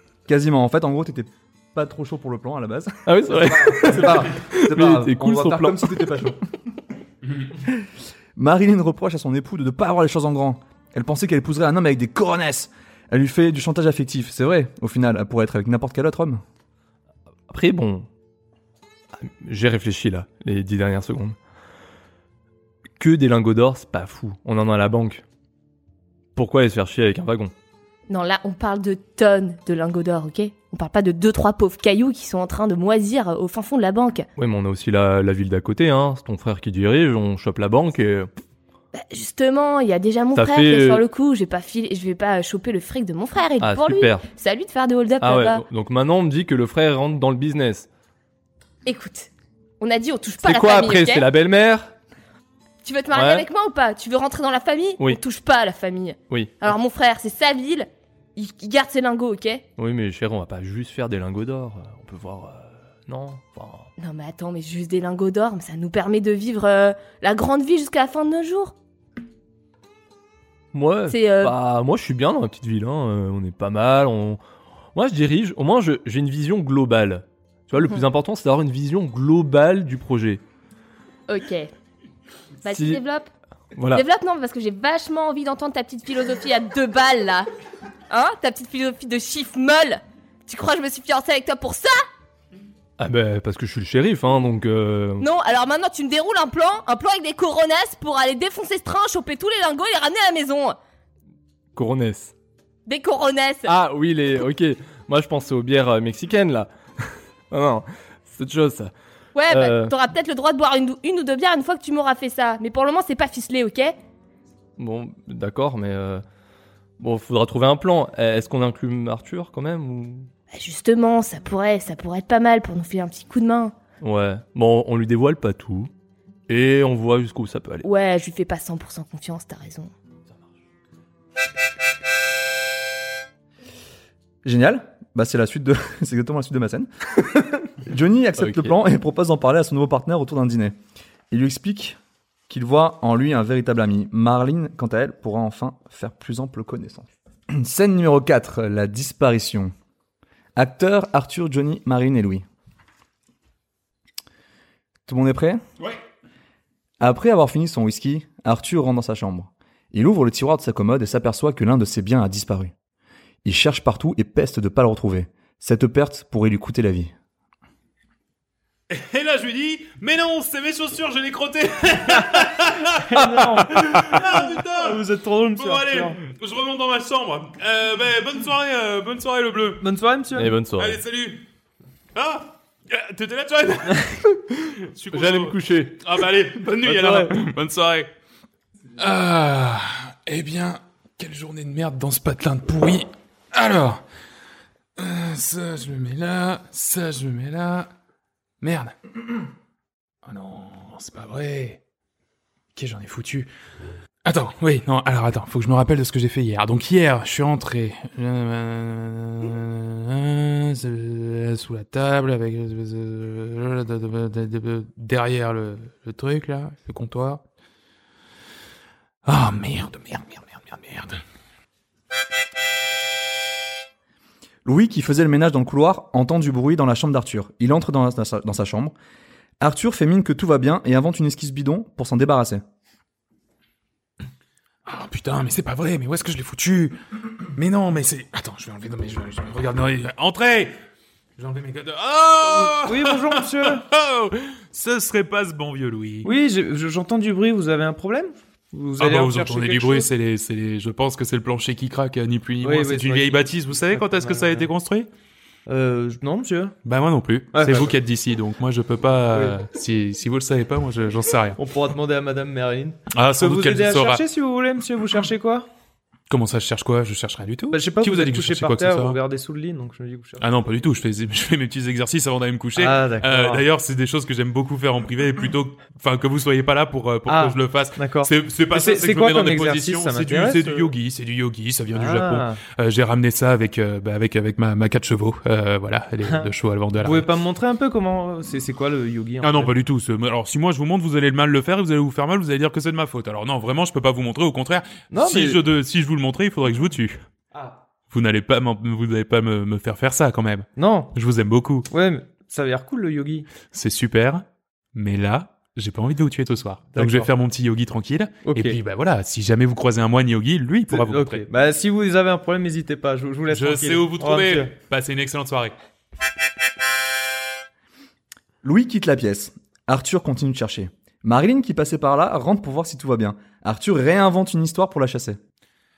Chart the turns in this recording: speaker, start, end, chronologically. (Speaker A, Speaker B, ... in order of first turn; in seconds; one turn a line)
Speaker A: 0.3-6.4
Speaker B: 3.0-5.9
Speaker A: 7.6-16.4
Speaker B: 17.5-18.1
Speaker B: 19.2-21.4
Speaker B: 23.0-25.2
Speaker B: 26.4-27.5
Speaker C: 28.1-34.3
Speaker B: 34.4-38.3
Speaker C: 38.9-45.6
Speaker B: 40.3-41.0
Speaker B: 43.6-44.3
Speaker B: 45.2-47.9
Speaker C: 48.9-51.3
Speaker B: 50.4-51.9
Speaker C: 52.8-59.6
Speaker B: 53.1-53.5
Speaker B: 56.3-56.5
Speaker B: 59.8-63.9
Speaker C: 64.0-68.8
Speaker B: 70.7-74.4
Speaker C: 71.1-71.5
Speaker B: 74.9-80.4
Speaker C: 81.3-81.7
Speaker C: 82.6-83.3
Speaker B: 82.7-83.0
Speaker B: 83.8-84.0
Speaker C: 83.9-87.5
Speaker C: 88.1-92.0
Speaker B: 93.0-95.3
Speaker C: 95.2-100.8
Speaker B: 101.8-102.3
Speaker C: 102.9-103.7
Speaker B: 103.6-108.9
Speaker C: 109.3-113.9
Speaker B: 109.5-109.9
Speaker B: 114.8-116.2
Speaker B: 117.0-120.3
Speaker C: 120.5-123.7
Speaker B: 124.0-125.9
Speaker B: 126.5-127.9
Speaker C: 127.8-129.9
Speaker A: 134.4-140.8
Speaker B: 138.4-138.8
Speaker A: 141.3-142.0
Speaker A: 142.5-149.7
Speaker A: 150.6-152.4
Speaker A: 155.1-155.6
Speaker A: 157.0-162.7
Speaker A: 163.4-167.1
Speaker D: 168.9-179.8
Speaker E: 172.9-176.2
Speaker E: 179.8-180.5
Speaker B: 180.3-181.0
Speaker D: 180.8-181.4
Speaker D: 182.1-188.1
Speaker B: 185.1-186.0
Speaker B: 186.8-187.3
Speaker D: 189.0-194.0
Speaker D: 195.0-197.9
Speaker D: 198.6-198.9
Speaker D: 200.2-201.8
Speaker D: 202.8-203.5
Speaker D: 204.2-217.4
Speaker D: 219.2-221.2
Speaker A: 224.6-228.9
Speaker A: 229.6-232.6
Speaker D: 234.9-237.0
Speaker D: 237.5-240.7
Speaker D: 241.4-246.3
Speaker E: 242.8-243.8
Speaker E: 246.2-250.1
Speaker D: 249.0-255.1
Speaker E: 252.6-254.7
Speaker E: 255.7-256.8
Speaker D: 256.9-261.6
Speaker E: 257.5-257.9
Speaker E: 261.6-265.6
Speaker D: 263.1-264.2
Speaker D: 266.3-269.2
Speaker E: 267.7-270.4
Speaker D: 270.4-287.3
Speaker E: 272.8-273.6
Speaker E: 277.3-280.9
Speaker E: 281.9-282.6
Speaker E: 287.0-289.7
Speaker D: 289.4-297.2
Speaker E: 295.1-295.6
Speaker D: 298.1-301.9
Speaker E: 300.8-301.1
Speaker E: 301.9-303.5
Speaker D: 303.7-311.4
Speaker E: 306.9-307.3
Speaker E: 308.4-308.8
Speaker E: 310.9-314.7
Speaker D: 313.5-315.7
Speaker A: 318.6-325.4